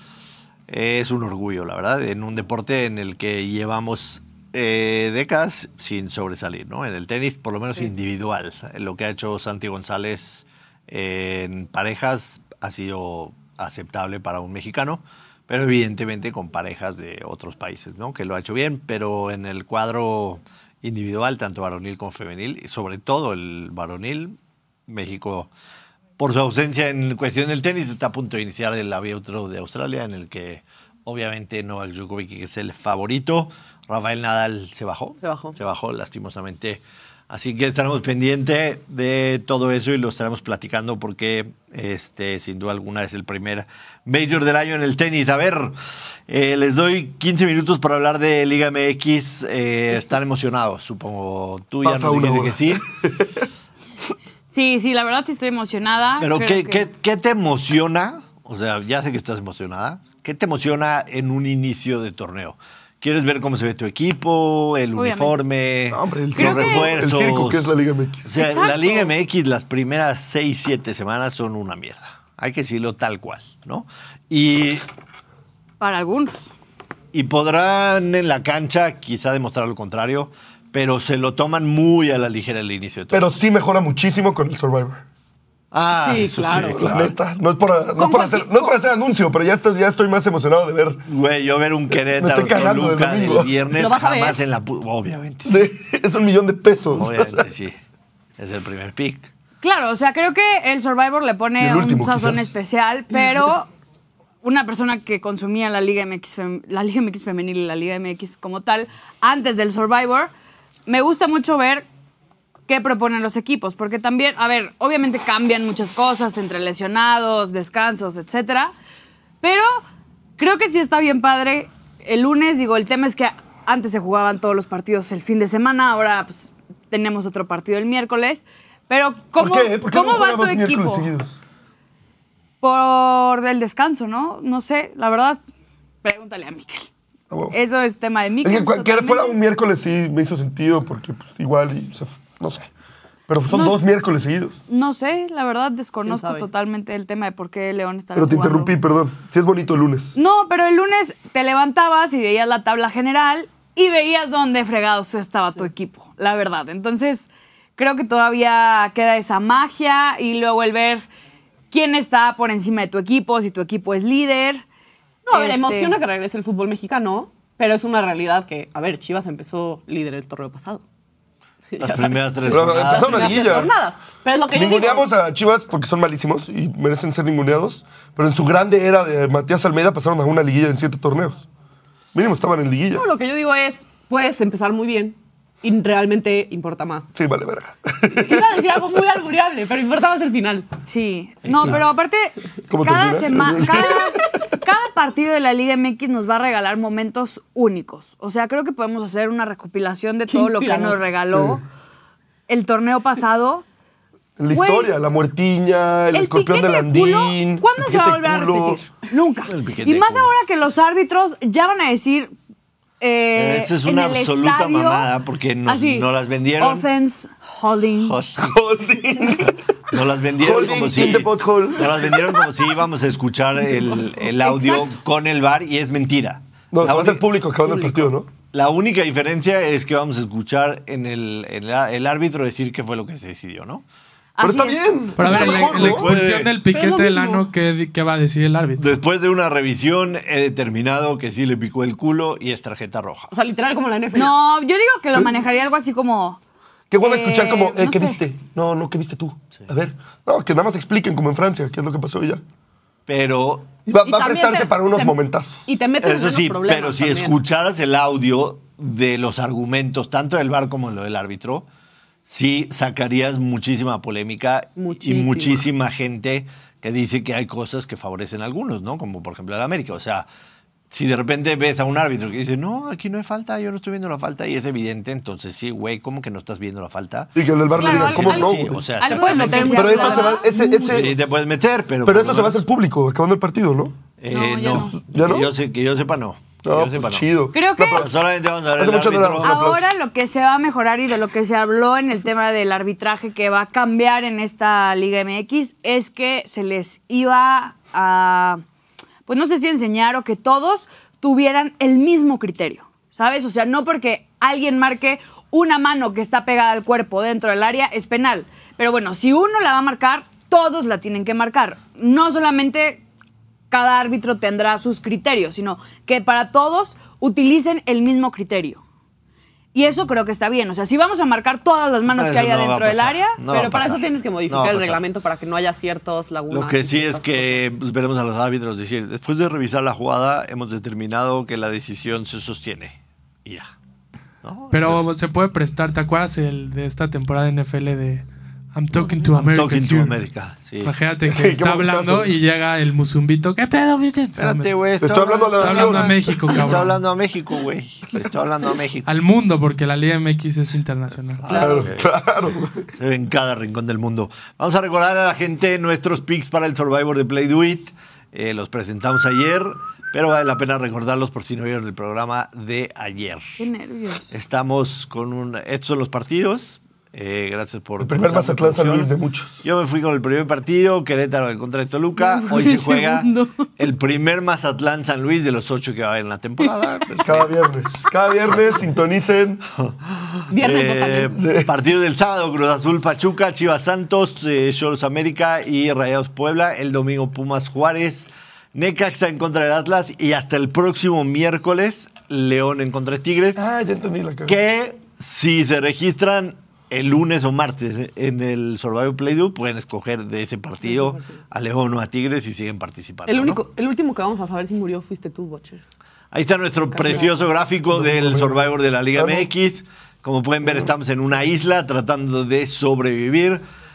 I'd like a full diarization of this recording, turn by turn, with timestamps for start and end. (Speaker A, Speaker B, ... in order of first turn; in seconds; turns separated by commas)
Speaker A: 0.7-24.4, Speaker A: 24.9-25.5, Speaker A: 26.2-45.8, Speaker B: 35.2-35.5, Speaker A: 46.3-52.9, Speaker C: 51.8-53.4, Speaker D: 54.5-56.9, Speaker A: 56.2-74.8, Speaker D: 65.0-65.4, Speaker C: 65.9-68.3, Speaker D: 66.4-66.9, Speaker D: 68.4-69.1, Speaker D: 75.8-76.5, Speaker A: 77.1-83.3, Speaker C: 83.1-85.0, Speaker A: 85.7-87.1, Speaker B: 85.9-87.0, Speaker C: 86.5-91.0, Speaker B: 88.0-88.7, Speaker A: 91.1-95.6, Speaker C: 91.9-93.5, Speaker B: 93.8-94.4, Speaker C: 95.5-97.5, Speaker A: 96.9-97.8, Speaker A: 98.4-99.3, Speaker D: 99.6-103.7, Speaker C: 101.6-102.5, Speaker D: 104.4-110.3, Speaker D: 110.9-111.9, Speaker D: 112.7-118.7, Speaker D: 119.4-119.8, Speaker D: 120.4-131.1, Speaker C: 129.4-131.4, Speaker D: 132.6-135.4, Speaker D: 136.0-136.9, Speaker C: 137.3-137.6, Speaker D: 137.5-139.4, Speaker C: 138.4-142.7, Speaker C: 143.3-144.6, Speaker D: 144.7-148.7, Speaker B: 146.1-146.5, Speaker C: 148.1-150.2, Speaker D: 150.2-161.1, Speaker D: 161.7-164.6, Speaker B: 165.2-170.8, Speaker D: 165.3-166.0, Speaker B: 171.7-175.1, Speaker A: 171.8-173.7, Speaker C: 172.5-173.7, Speaker C: 174.5-181.5, Speaker C: 182.1-183.1, Speaker B: 182.9-187.2, Speaker C: 187.1-188.6, Speaker B: 188.1-190.7, Speaker D: 190.9-201.6, Speaker A: 191.4-191.8, Speaker C: 192.7-194.2, Speaker B: 200.3-201.1, Speaker C: 201.3-201.6, Speaker D: 202.5-203.6, Speaker C: 204.4-208.8, Speaker D: 204.5-204.9, Speaker D: 206.1-212.3, Speaker A: 209.5-210.3, Speaker D: 213.0-215.1, Speaker A: 213.3-216.9, Speaker D: 215.7-218.2, Speaker A: 218.0-218.6, Speaker C: 218.4-219.6, Speaker A: 219.4-227.3, Speaker C: 220.4-222.6, Speaker D: 224.4-224.9, Speaker C: 226.7-228.3, Speaker B: 227.6-228.1, Speaker A: 228.5-233.8, Speaker D: 234.4-234.9, Speaker C: 234.4-236.1, Speaker E: 235.2-238.9, Speaker A: 235.2-236.6, Speaker B: 236.7-237.5, Speaker A: 238.8-243.3, Speaker B: 243.3-244.3, Speaker D: 244.1-246.4, Speaker C: 246.9-252.4, Speaker D: 247.0-248.2, Speaker A: 253.1-253.7, Speaker C: 253.9-255.8, Speaker B: 254.0-257.4, Speaker A: 256.0-261.6, Speaker A: 262.2-270.2, Speaker B: 264.8-265.7, Speaker A: 270.9-282.6, Speaker C: 277.4-278.9, Speaker D: 277.8-281.0, Speaker B: 279.1-280.4, Speaker C: 279.7-281.2, Speaker C: 282.0-284.0, Speaker A: 284.2-289.5, Speaker D: 284.3-285.0, Speaker C: 284.6-285.5, Speaker C: 286.6-288.1, Speaker D: 287.5-288.1, Speaker C: 288.7-289.9, Speaker D: 289.4-298.6, Speaker D: 299.3-313.0, Speaker D: 313.7-318.8, Speaker D: 319.7-323.4, Speaker A: 322.1-325.0, Speaker B: 323.5-327.8, Speaker A: 326.5-333.7, Speaker A: 334.4-335.1, Speaker E: 334.7-340.2, Speaker A: 339.1-340.9, Speaker E: 340.8-344.9, Speaker C: 341.2-342.3, Speaker A: 344.4-349.1, Speaker C: 345.0-346.4, Speaker E: 345.5-347.0, Speaker E: 349.1-351.7, Speaker A: 351.4-352.1, Speaker B: 351.5-351.9, Speaker C: 351.5-352.8, Speaker A: 352.9-363.6, Speaker D: 363.6-364.3, Speaker A: 364.3-369.1, Speaker C: 368.0-369.6, Speaker A: 369.6-377.6, Speaker D: 372.2-373.7, Speaker C: 377.2-379.6, Speaker A: 378.5-378.8, Speaker A: 379.7-393.6, Speaker B: 380.5-381.4, Speaker C: 381.4-381.7, Speaker C: 393.6-394.6, Speaker A: 394.5-403.6, Speaker B: 400.8-401.4, Speaker B: 403.3-405.8, Speaker A: 406.3-413.6, Speaker B: 406.9-407.3, Speaker C: 407.9-409.5